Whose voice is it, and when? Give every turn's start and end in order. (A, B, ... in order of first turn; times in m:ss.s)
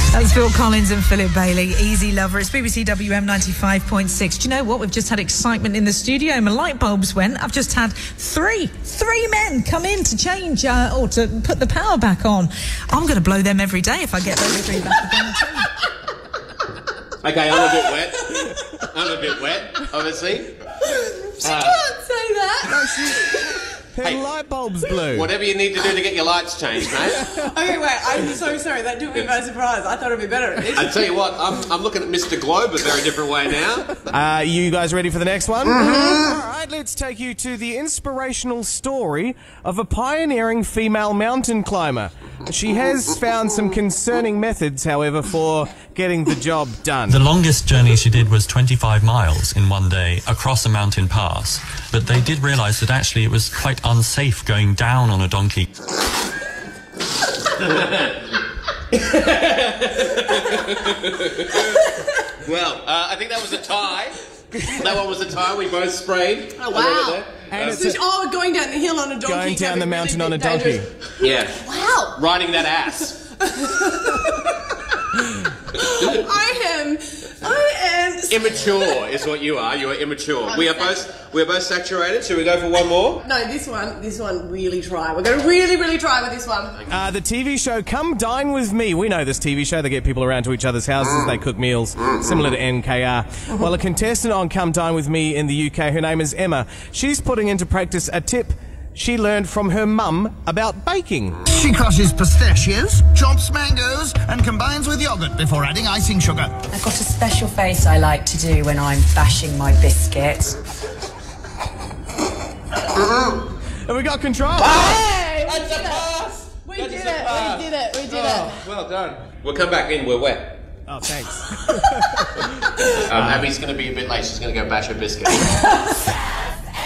0:00.1-0:15.7 A
0:17.2-0:20.5 B
0:20.8-0:23.6 C
0:21.4-0:21.8 B
0:22.7-0:25.3 D
0:25.1-0:27.3 B
0:27.1-0:31.1 C
0:30.7-0:34.1 B
0:34.1-0:47.2 D
0:47.1-0:55.7 E
0:57.6-0:58.2 B
0:58.9-1:07.8 B
1:04.5-1:04.9 D
1:06.6-1:12.2 C
1:07.5-1:08.0 D
1:09.2-1:10.9 D
1:11.2-1:11.6 B
1:12.1-1:13.2 B
1:13.3-1:14.8 C
1:15.7-1:18.9 C
1:18.3-1:23.2 B
1:20.5-1:21.0 C
1:23.2-1:26.8 C
1:26.9-1:41.4 D
1:41.5-1:46.6 F
1:46.7-1:50.6 G
1:53.8-1:54.9 D
1:54.7-1:56.0 C
1:55.5-2:00.6 B
1:56.6-1:58.6 C
2:00.9-2:02.5 D
2:03.0-2:05.7 B
2:03.1-2:03.5 D